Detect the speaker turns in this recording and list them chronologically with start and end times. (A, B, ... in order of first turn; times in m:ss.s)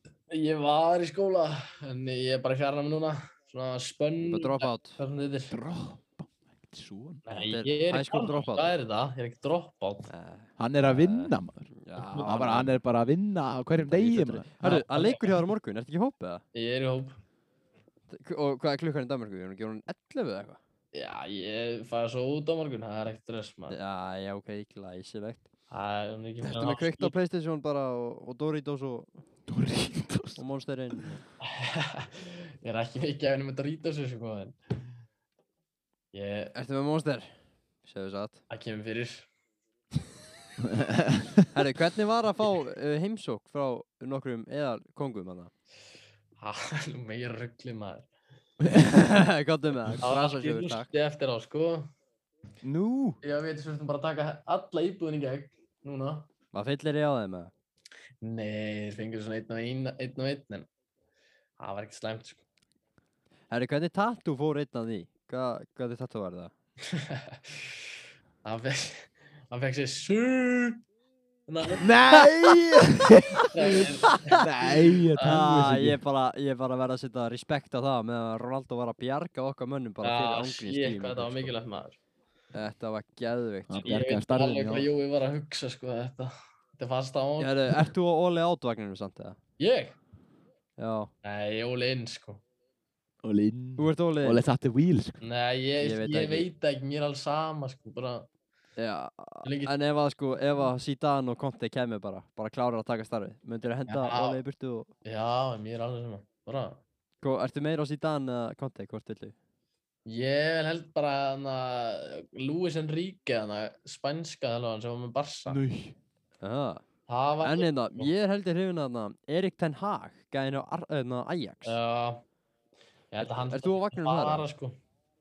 0:00.3-0:05.6 A
0:04.2-0:05.0 B
0:05.5-0:07.2 C
0:07.2-0:10.1 A
0:07.3-0:08.8 B
0:10.1-0:12.8 B
0:10.6-0:14.8 C
0:12.0-0:12.7 A
0:13.8-0:16.4 B
0:14.6-0:15.4 A
0:16.5-0:17.2 A
0:18.1-0:20.6 B
0:20.9-0:23.8 A
0:23.7-0:25.4 B
0:25.7-0:27.2 A
0:26.4-0:29.1 B
0:29.5-0:30.4 C
0:30.4-0:31.2 B
0:31.5-0:34.6 A
0:36.1-0:36.5 A
0:36.5-0:37.3 B
0:37.8-0:38.4 B
0:38.5-0:39.3 A
0:40.9-0:41.2 C
0:41.5-0:45.5 B
0:46.4-0:48.1 A
0:48.8-0:50.9 B
0:50.0-0:51.9 A
0:52.6-0:53.2 C
0:53.2-0:56.3 A
0:56.5-0:57.5 B
0:58.2-1:00.7 A
1:01.6-1:02.4 A
1:03.5-1:06.5 B
1:06.9-1:07.8 A
1:08.4-1:10.8 A
1:11.5-1:12.6 A
1:11.8-1:16.0 C
1:13.5-1:14.5 A
1:15.2-1:15.5 A
1:15.2-1:21.5 B
1:20.0-1:22.0 A
1:22.5-1:24.0 B
1:23.7-1:24.9 C
1:23.8-1:27.8 A
1:27.4-1:29.4 B
1:29.6-1:30.0 A
1:30.8-1:31.1 B
1:31.2-1:32.4 A
1:33.2-1:35.2 C
1:33.8-1:34.4 B
1:35.2-1:38.3 A
1:35.8-1:36.5 B
1:38.8-1:44.9 B
1:39.4-1:39.7 A
1:43.9-1:44.4 A
1:45.0-1:46.8 A
1:47.2-1:49.4 B
1:50.1-1:55.6 A
1:55.5-1:56.0 C
1:56.4-1:56.8 B
1:57.1-1:58.1 A
1:57.4-2:01.8 B
2:01.6-2:02.2 A
2:03.1-2:04.8 A
2:03.2-2:04.4 B